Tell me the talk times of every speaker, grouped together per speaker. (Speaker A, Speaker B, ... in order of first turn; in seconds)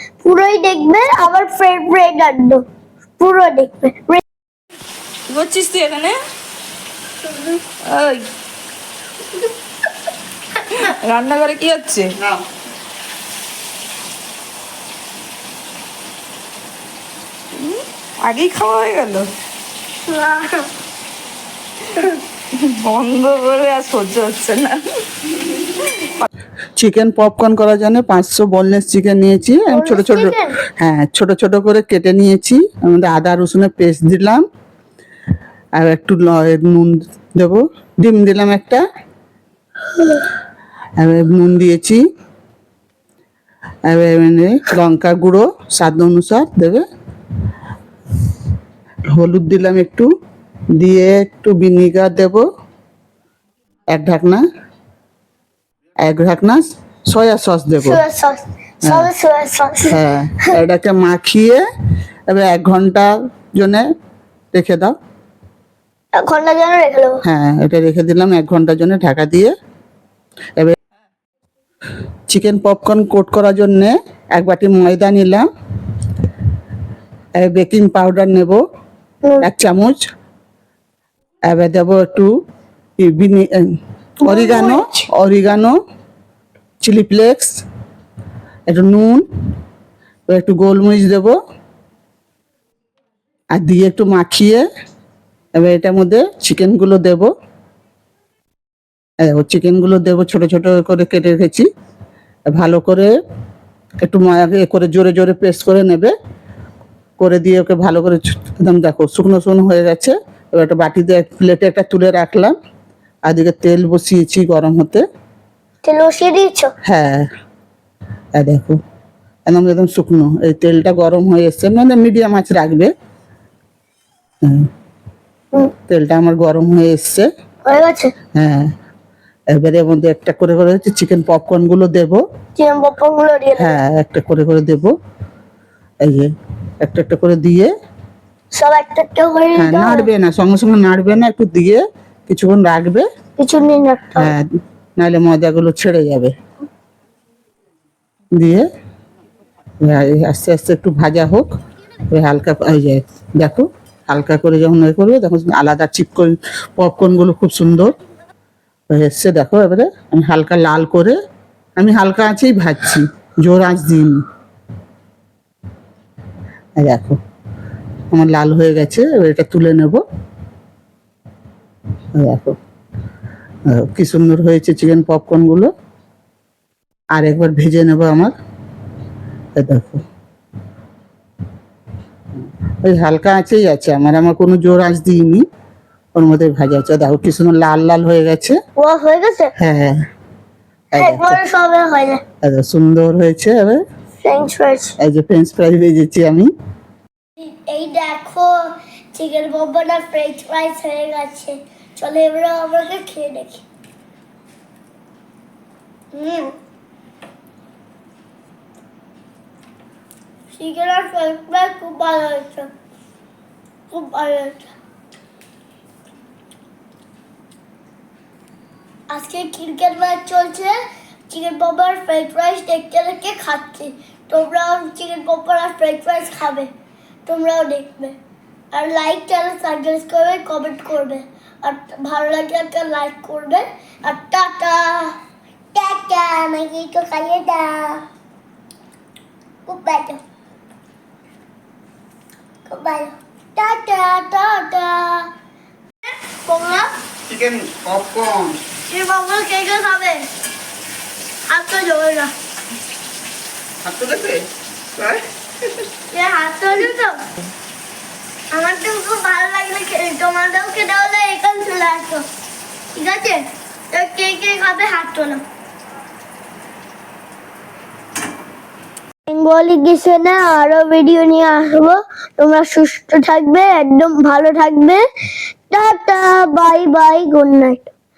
Speaker A: 0.2-2.6, 3.2-4.2, 20.1-20.5, 29.7-30.6, 57.8-60.5, 66.2-67.2, 84.2-85.0, 115.8-116.7, 127.7-128.1, 132.6-133.8, 138.5-140.1, 143.4-144.3, 188.8-189.5, 190.9-192.2, 194.2-194.9, 197.4-203.6, 206.1-206.5, 210.5-212.7, 213.9-214.7, 219.1-220.8, 221.3-226.7, 227.2-228.2, 228.7-235.2, 235.7-238.0, 239.7-240.2, 242.7-245.3, 246.3-246.9, 248.9-250.3, 251.5-252.3, 256.1-257.2, 258.5-262.2, 262.9-265.4, 269.3-275.0, 275.7-277.9
Speaker B: 5.3-6.2, 7.8-8.2, 10.6-12.1, 17.5-19.3, 22.0-26.1
Speaker C: 12.2-12.4, 26.8-34.4, 35.8-38.8, 41.0-42.0, 43.9-46.8, 49.1-50.1, 50.8-52.4, 53.9-54.4, 56.0-58.0, 59.9-61.6, 62.3-63.9, 64.5-64.9, 67.2-69.5, 72.3-75.4, 77.4-78.6, 79.4-80.1, 81.5-82.3, 83.0-83.7, 84.2-85.8, 86.8-87.6, 88.7-89.2, 90.3-91.3, 93.5-94.7, 95.6-97.3, 99.2-101.7, 102.5-103.1, 104.0-106.1, 107.2-112.5, 113.3-115.0, 116.8-117.2, 118.3-118.8, 119.5-122.9, 125.9-127.3, 128.3-128.7, 129.5-132.2, 133.6-134.9, 136.0-136.3, 136.8-137.7, 139.6-143.1, 144.1-144.4, 145.0-146.3, 148.4-148.7, 149.8-151.4, 152.1-157.9, 158.9-161.2, 161.8-164.2, 166.8-167.2, 168.1-170.0, 172.1-172.6, 173.7-175.7, 177.1-178.3, 179.6-180.0, 182.8-185.4, 186.2-188.6, 189.6-190.0, 190.9-191.4, 192.4-193.8, 195.0-196.5, 247.3-248.6, 253.8-255.2